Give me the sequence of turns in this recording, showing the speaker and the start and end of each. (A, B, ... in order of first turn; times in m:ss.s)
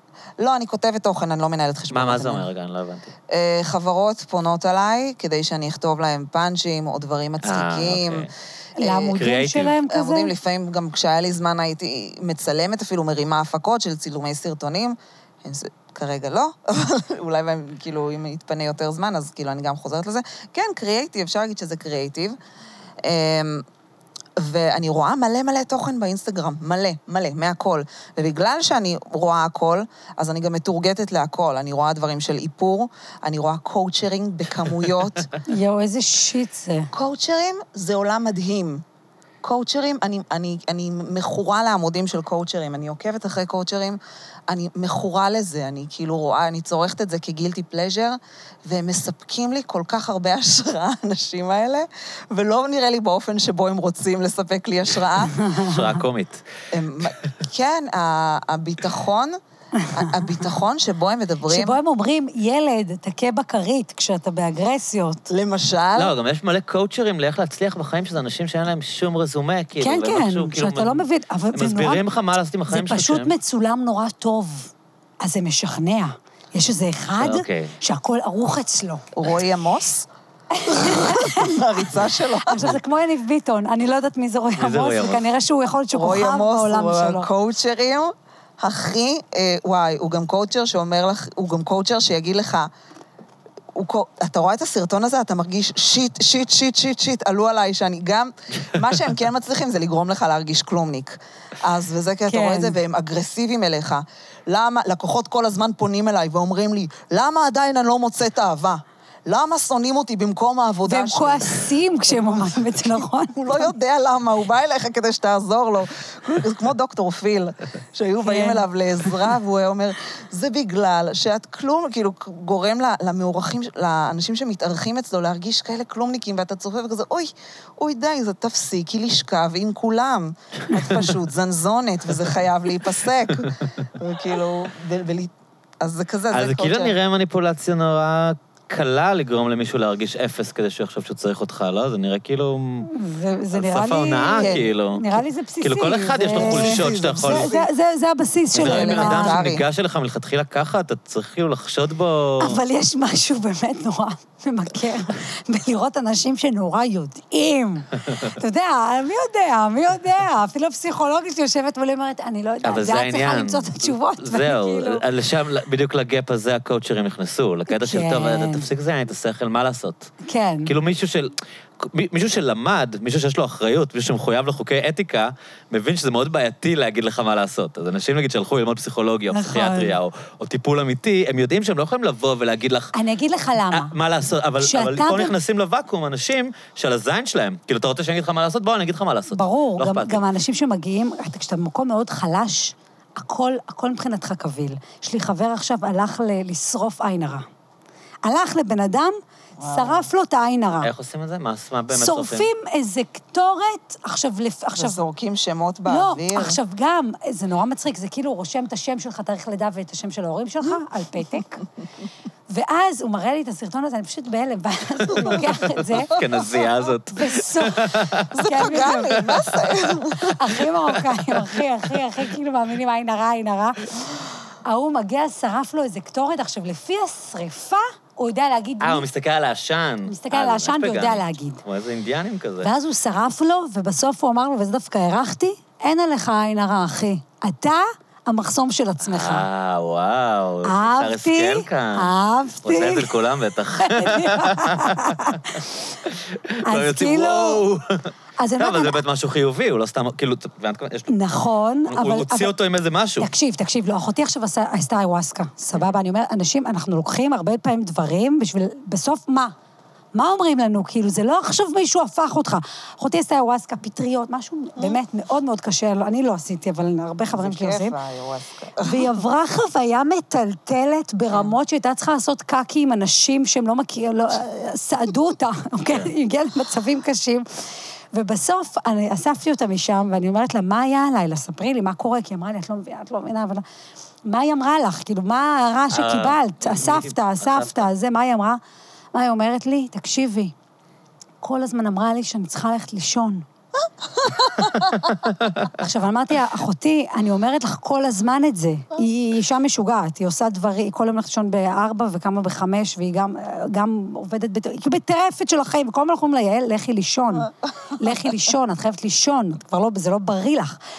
0:00.4-0:02.5 A
0:01.9-0:03.1 B
0:03.3-0:09.2 A
0:07.4-0:08.3 B
0:08.8-0:10.3 C
0:09.1-0:09.8 B
0:09.9-0:22.4 A
0:23.0-0:23.6 A
0:24.4-0:35.3 A
0:35.4-0:36.9 C
0:36.9-0:38.8 A
0:39.4-0:55.4 A
0:55.4-0:55.8 C
0:55.6-0:56.4 B
0:56.7-0:59.4 A
0:59.8-1:00.1 C
0:59.9-1:01.8 A
1:01.5-1:05.3 C
1:05.3-1:06.1 A
1:06.0-1:13.3 B
1:09.8-1:12.0 C
1:12.7-1:14.7 C
1:15.2-1:19.0 C
1:17.2-1:17.8 B
1:19.2-1:20.1 A
1:20.6-1:21.6 C
1:20.7-1:22.8 A
1:22.4-1:27.3 C
1:24.6-1:25.2 B
1:25.9-1:32.7 A
1:33.7-2:17.0 A
1:42.3-1:42.8 C
1:50.9-1:53.7 C
1:58.2-1:58.6 C
2:16.3-2:22.9 B
2:22.9-2:29.4 C
2:23.5-2:27.5 B
2:24.4-2:24.7 A
2:26.3-2:27.7 A
2:28.5-2:32.6 B
2:28.6-2:29.6 A
2:32.4-2:45.0 C
2:42.6-2:50.1 B
2:47.7-2:48.7 C
2:50.2-2:50.7 C
2:50.7-3:02.9 B
2:59.3-3:00.0 C
3:02.9-3:03.9 C
3:03.7-3:10.2 B
3:04.6-3:05.4 C
3:09.3-3:17.5 C
3:18.2-3:20.9 C
3:19.6-3:20.1 A
3:20.8-3:22.5 B
3:21.9-3:25.0 C
3:24.8-3:26.6 A
3:25.9-3:31.6 C
3:32.5-3:36.6 C
3:35.2-3:38.5 B
3:37.1-3:39.4 C
3:38.3-3:40.4 A
3:39.3-3:39.8 B
3:40.2-3:43.9 C
3:40.9-3:42.0 B
3:44.6-3:49.1 C
3:48.8-3:52.7 B
3:50.1-3:51.6 C
3:52.6-3:59.5 C
3:59.0-4:11.2 B
4:00.6-4:03.2 C
4:03.8-4:05.8 C
4:06.6-4:07.6 C
4:08.4-4:09.0 C
4:11.1-4:12.5 C
4:11.9-4:13.3 B
4:13.2-4:19.5 C
4:20.1-4:28.0 C
4:27.3-4:29.1 A
4:28.8-4:37.5 C
4:35.9-4:36.1 B
4:38.1-4:43.6 C
4:44.3-4:48.6 C
4:45.9-4:47.8 B
4:49.1-4:50.5 C
4:51.4-4:53.5 C
4:54.2-4:55.0 A
4:55.4-4:55.7 B
4:55.6-5:10.8 C